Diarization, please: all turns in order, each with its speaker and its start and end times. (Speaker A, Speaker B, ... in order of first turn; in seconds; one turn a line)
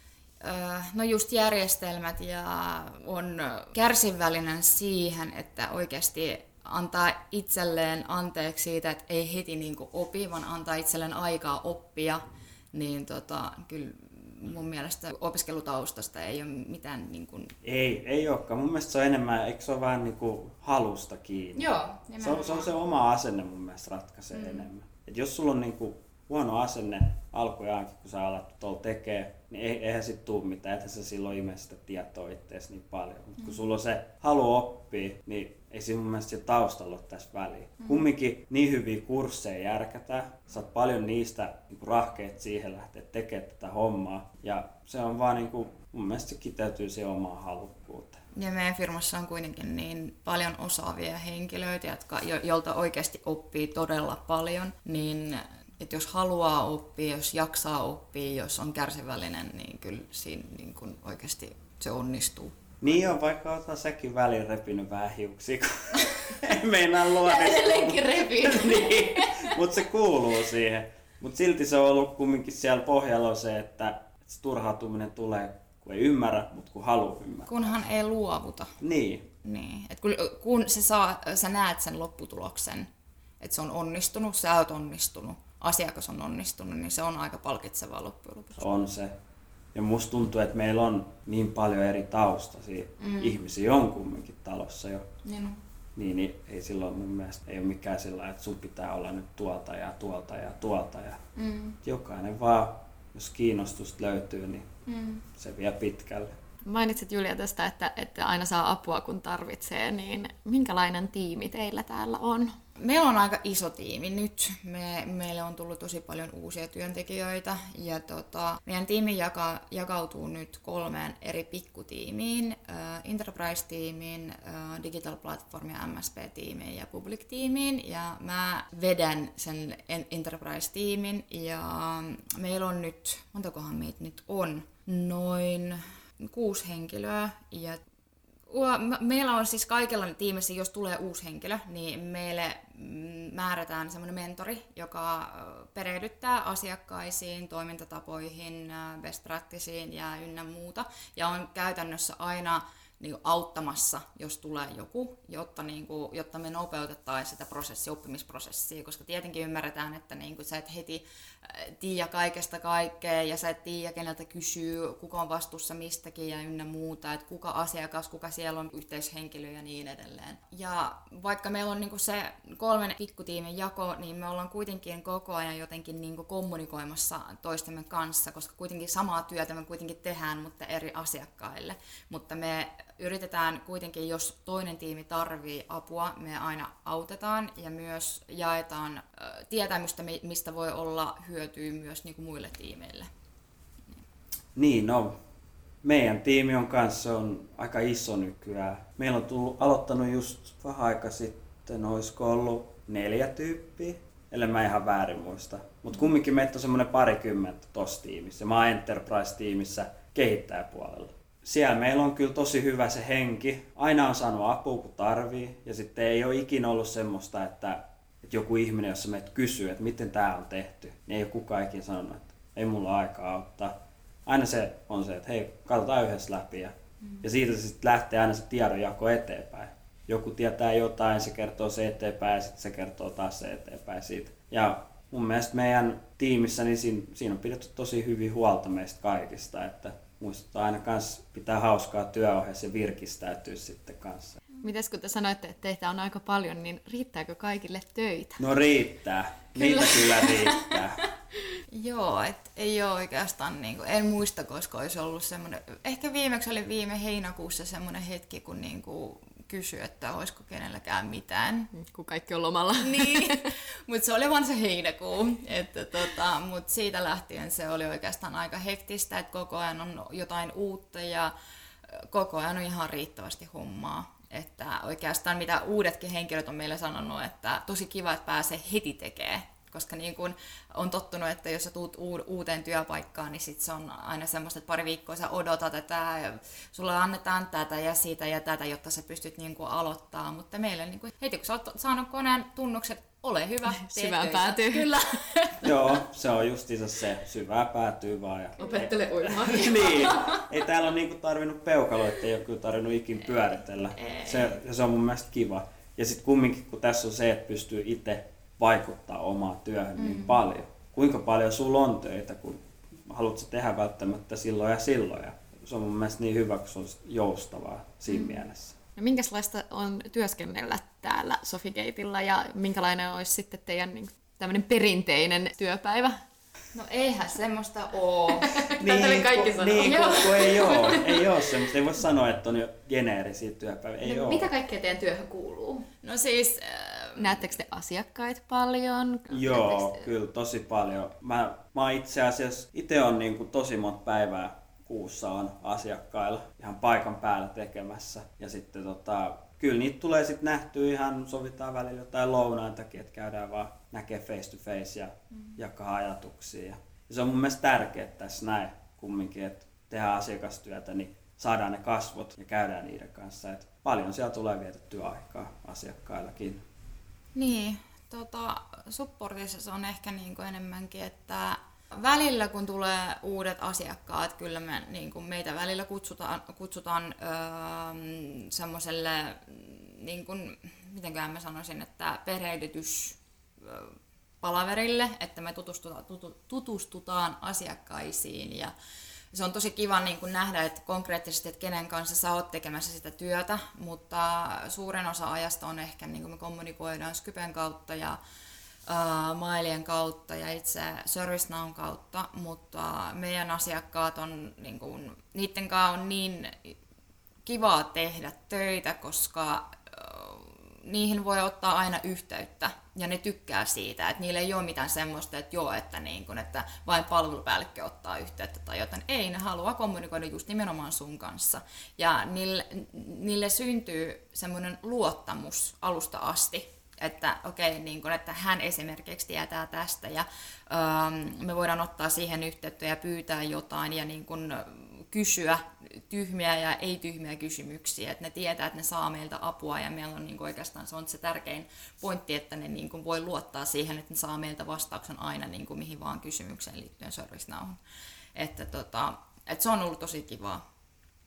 Speaker A: 0.4-12.2
Speaker A: 12.7-17.5
Speaker B: 17.6-21.7
Speaker A: 21.6-22.7
Speaker B: 22.2-48.2
Speaker A: 24.3-24.7
Speaker A: 48.4-62.6
Speaker B: 62.8-77.7
Speaker A: 67.2-69.6
Speaker A: 77.5-78.8
Speaker B: 78.8-79.3
Speaker A: 79.4-82.9
Speaker A: 83.4-88.7
Speaker B: 88.6-89.1
Speaker B: 89.7-95.1
Speaker A: 93.0-93.4
Speaker A: 95.2-95.6
Speaker B: 96.0-101.2
Speaker A: 101.4-101.8
Speaker B: 101.8-104.7
Speaker A: 104.9-105.2
Speaker B: 105.4-106.3
Speaker C: 106.7-112.6
Speaker A: 112.8-137.8
Speaker A: 138.5-193.1
Speaker B: 194.6-195.2
Speaker B: 195.8-223.8
Speaker B: 224.3-244.4
Speaker C: 244.6-248.4
Speaker B: 248.4-251.0
Speaker A: 251.7-261.7
Speaker C: 261.8-263.4
Speaker A: 262.8-271.3
Speaker A: 271.9-295.7
Speaker C: 293.8-295.0
Speaker B: 295.6-318.8
Speaker C: 298.6-300.3
Speaker A: 304.0-304.6
Speaker A: 310.0-310.4
Speaker A: 318.1-318.4
Speaker C: 319.0-326.2
Speaker A: 326.7-328.6
Speaker C: 328.5-331.5
Speaker B: 328.7-334.5
Speaker A: 329.8-331.0
Speaker C: 334.0-335.9
Speaker A: 336.0-337.4
Speaker C: 337.2-340.1
Speaker B: 339.3-366.6
Speaker A: 367.4-388.7
Speaker A: 389.3-398.2
Speaker A: 398.9-406.8
Speaker A: 407.5-447.8
Speaker A: 448.4-450.6